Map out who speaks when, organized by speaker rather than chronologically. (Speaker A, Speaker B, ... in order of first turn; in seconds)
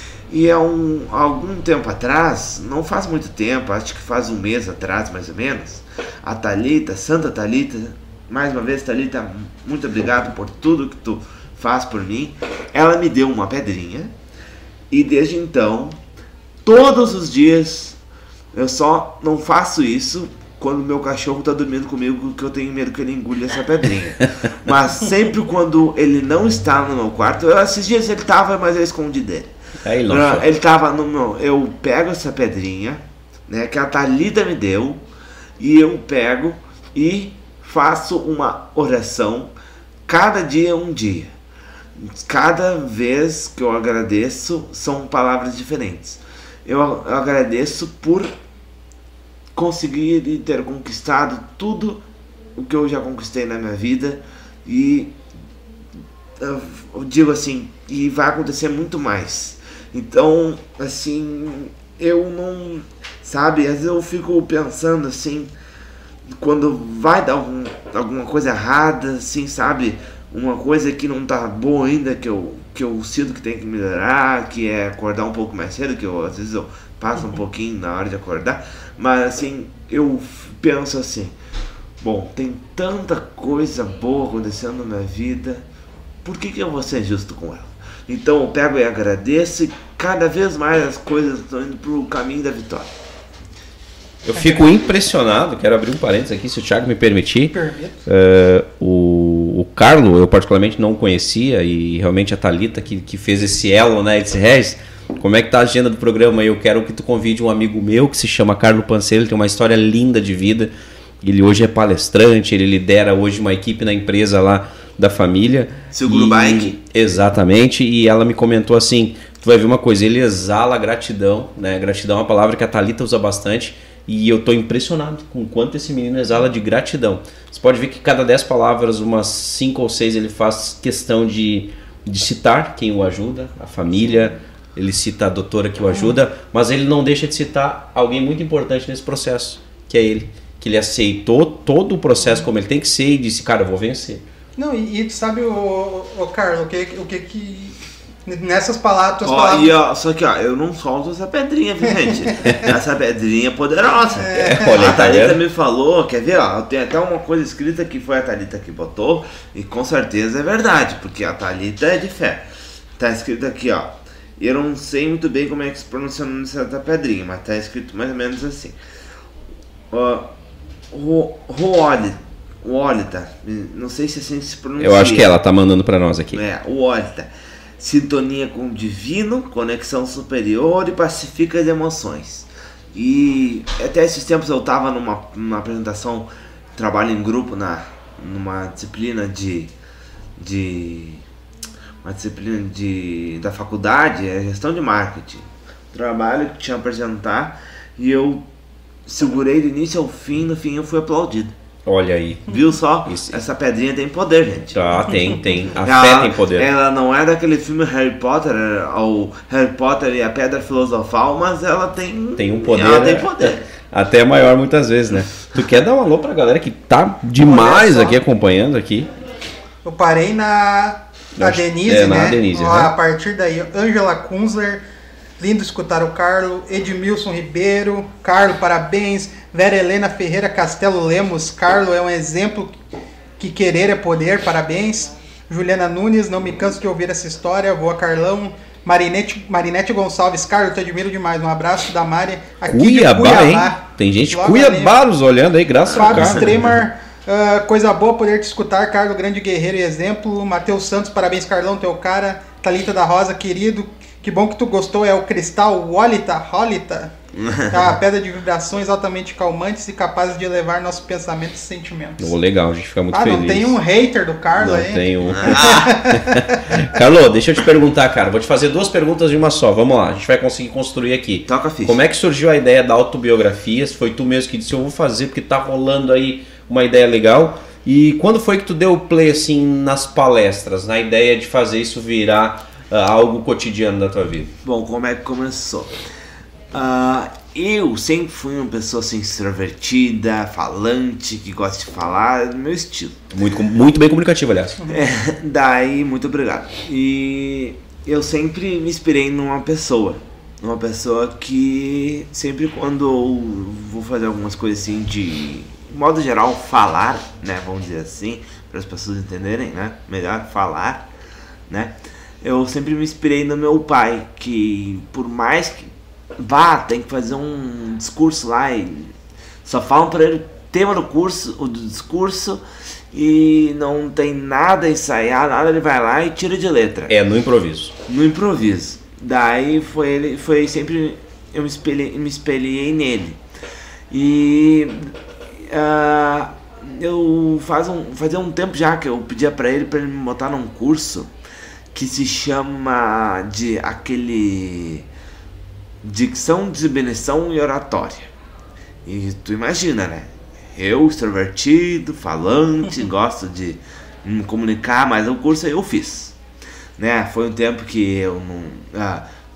Speaker A: 0.3-14.1, 14.9-16.0, 16.6-18.0, 18.5-29.5, 30.1-35.0, 35.6-39.5, 40.1-41.3, 42.0-48.3, 49.5-52.0, 52.6-55.1, 56.4-65.5, 66.4-81.3, 82.0-85.6, 86.2-92.9, 115.9-116.8, 149.2-162.4, 163.0-168.8, 169.9-170.3, 170.9-175.3, 176.3-189.7, 190.4-191.2, 192.0-198.4, 199.1-201.5, 202.5-204.8, 205.8-213.6, 257.4-257.8, 265.3-265.9, 271.5-272.0, 284.6-286.0, 286.7-293.2, 294.9-311.1, 311.7-319.1, 319.6-327.1, 328.1-333.4, 334.1-335.1, 335.7-341.3, 341.9-345.1, 346.0-348.3, 349.1-356.3, 357.0-359.2
Speaker B: 29.8-30.4, 94.2-97.5, 98.0-110.7, 111.2-144.2, 154.3-155.4, 174.8-176.4, 201.8-203.4, 204.7-206.7, 212.4-219.1, 221.4-222.9, 242.7-246.6, 262.2-263.8, 264.5-284.5, 293.3-294.8, 327.1-327.9
Speaker C: 97.5-98.0, 144.6-149.7, 154.2-154.8, 217.4-218.2, 219.8-224.8, 225.4-232.8, 233.4-244.9, 245.9-257.1, 257.7-262.3, 263.1-266.6